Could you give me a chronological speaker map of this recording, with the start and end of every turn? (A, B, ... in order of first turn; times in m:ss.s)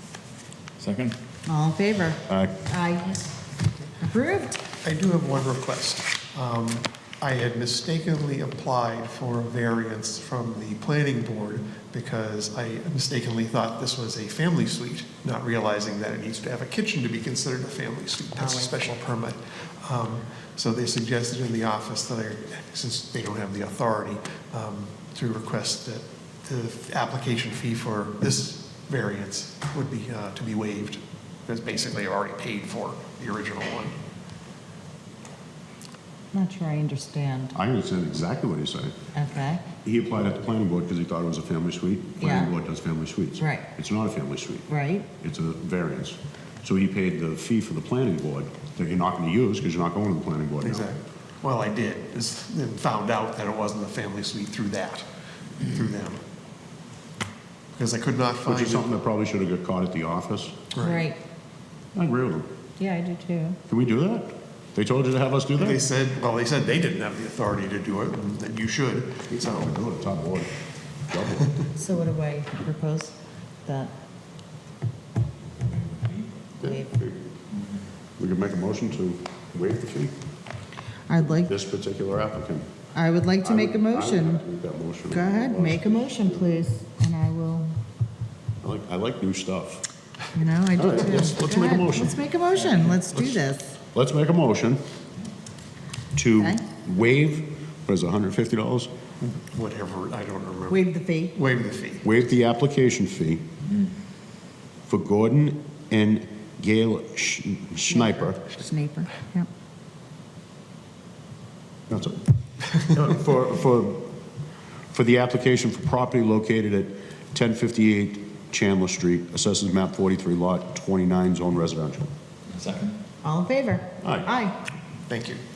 0:00.8-0:01.2 A
0:01.4-0:03.3 B
0:02.3-0:02.5 C
0:03.8-0:04.6 B
0:04.8-0:34.0 D
0:18.4-0:18.7 B
0:36.3-0:37.5 B
0:37.5-0:39.0 C
0:39.1-0:39.6 B
0:39.7-0:50.9 C
0:42.2-0:42.5 B
0:43.4-0:43.6 B
0:44.7-0:45.1 B
0:50.6-0:55.1 D
0:55.6-0:56.2 D
0:57.7-0:58.9 D
0:58.4-1:00.6 C
1:00.7-1:01.1 D
1:00.8-1:01.2 B
1:01.9-1:02.5 C
1:02.8-1:03.6 B
1:03.7-1:05.8 C
1:05.6-1:09.8 D
1:09.3-1:10.5 C
1:11.1-1:11.6 C
1:11.8-1:13.9 B
1:15.6-1:16.3 A
1:16.6-1:17.2 C
1:16.6-1:17.0 B
1:18.2-1:20.1 C
1:21.1-1:21.5 B
1:21.2-1:22.7 C
1:22.9-1:24.4 B
1:23.4-1:26.5 C
1:25.1-1:27.7 B
1:28.6-1:29.8 C
1:30.3-1:33.7 B
1:30.8-1:32.2 C
1:32.6-1:33.0 A
1:33.9-1:34.8 C
1:36.1-1:38.9 C
1:39.2-1:42.0 D
1:40.7-1:41.3 B
1:42.0-1:43.4 C
1:44.9-1:48.4 C
1:47.9-1:49.5 B
1:51.9-1:54.1 C
1:54.9-2:02.1 C
2:02.5-2:03.0 A
2:03.2-2:04.6 B
2:04.0-2:04.3 C
2:05.1-2:05.4 D